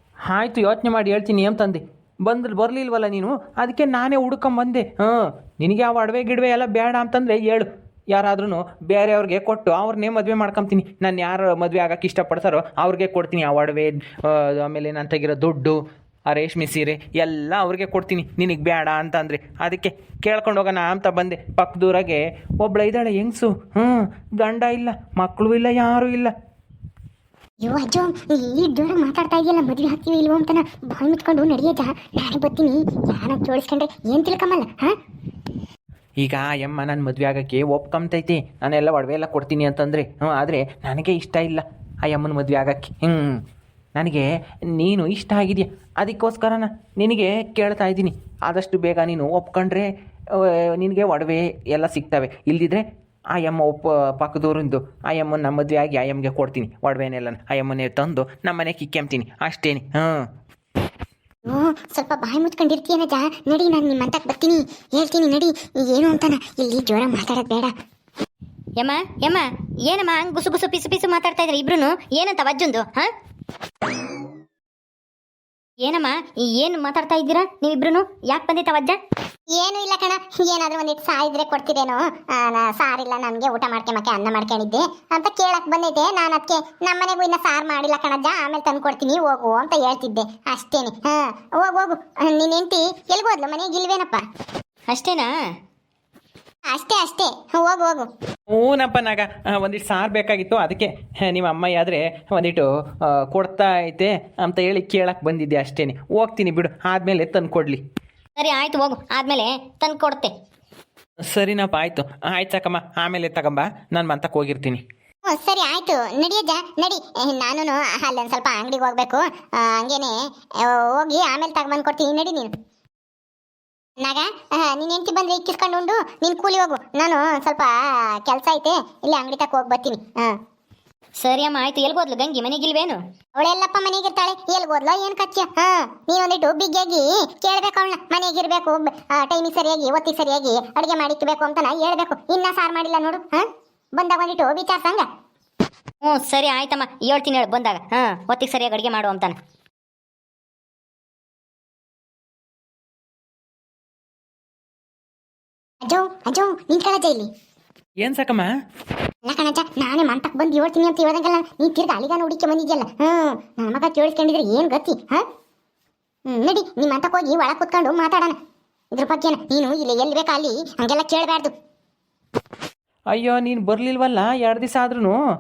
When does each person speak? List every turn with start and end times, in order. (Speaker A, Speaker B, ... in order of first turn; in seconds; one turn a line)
Speaker A: 0.3-26.3
Speaker B: 27.6-34.9
Speaker A: 36.2-43.4
Speaker A: 44.0-60.2
Speaker B: 61.5-67.7
Speaker C: 68.8-73.1
Speaker C: 75.8-79.0
Speaker B: 79.5-94.2
Speaker C: 94.9-95.3
Speaker B: 96.7-98.1
Speaker A: 98.5-107.8
Speaker C: 108.4-110.3
Speaker A: 111.3-114.8
Speaker B: 115.3-122.5
Speaker B: 124.0-130.4
Speaker C: 131.2-133.0
Speaker B: 133.4-143.5
Speaker B: 144.0-145.1
Speaker C: 146.0-149.4
Speaker B: 155.8-157.3
Speaker A: 158.0-158.5
Speaker B: 159.2-165.2
Speaker B: 166.3-168.4
Speaker B: 168.9-171.5
Speaker A: 173.1-175.2